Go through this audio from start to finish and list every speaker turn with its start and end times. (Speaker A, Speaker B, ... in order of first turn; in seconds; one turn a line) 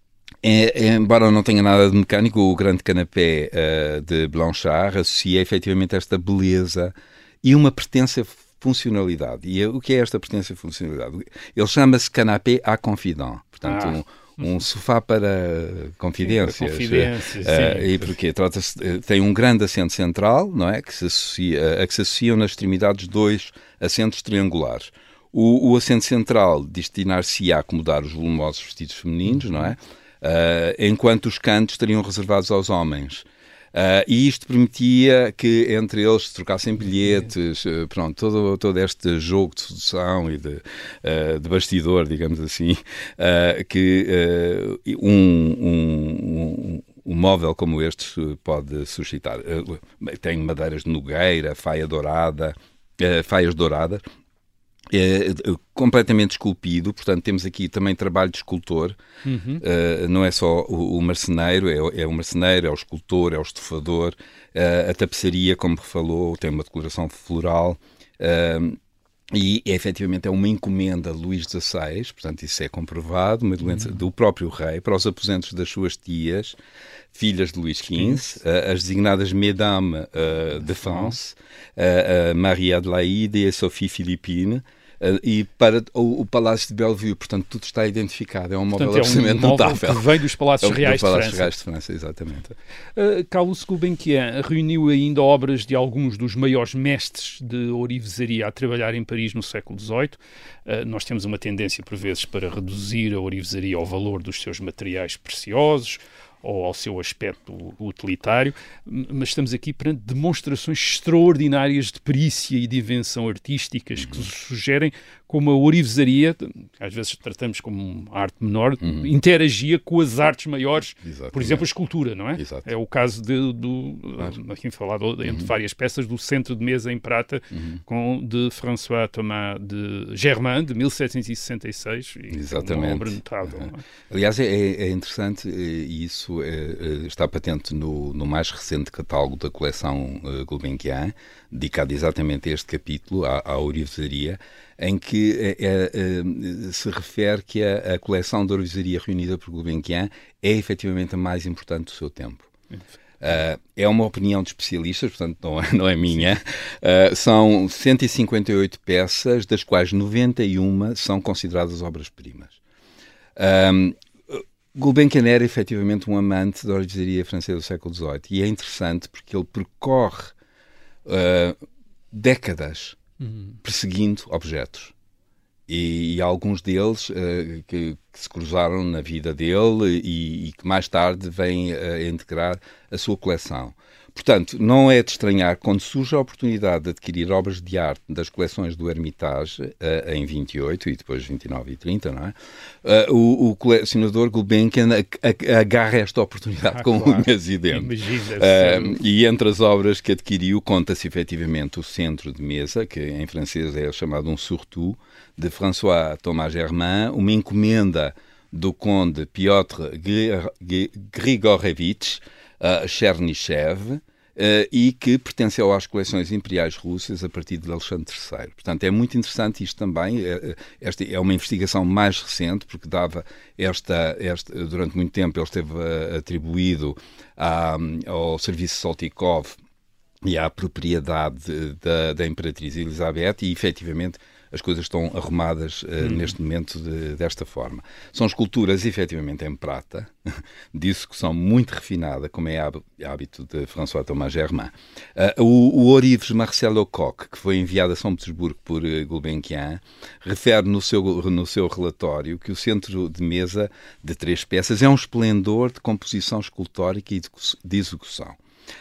Speaker A: 0.4-54.0
Speaker B: 13.7-14.0
Speaker B: 16.2-18.1
Speaker A: 54.9-59.0
Speaker B: 59.2-59.6
Speaker A: 59.6-68.8
Speaker A: 69.3-76.6
Speaker B: 73.6-74.0
Speaker A: 77.1-90.1
Speaker B: 77.9-78.2
Speaker B: 80.8-81.2
Speaker B: 88.7-91.5
Speaker A: 90.6-92.5
Speaker B: 93.0-133.8
Speaker A: 114.0-114.3
Speaker A: 118.8-119.1
Speaker A: 121.0-121.7
Speaker A: 122.4-122.7
Speaker A: 132.3-152.5
Speaker A: 153.2-162.6
Speaker A: 163.4-170.3
Speaker A: 171.1-171.6
Speaker A: 172.1-173.0
Speaker B: 173.2-173.5
Speaker A: 173.6-174.9
Speaker A: 175.7-229.6
Speaker B: 196.7-199.0
Speaker A: 230.2-258.4
Speaker B: 236.0-236.3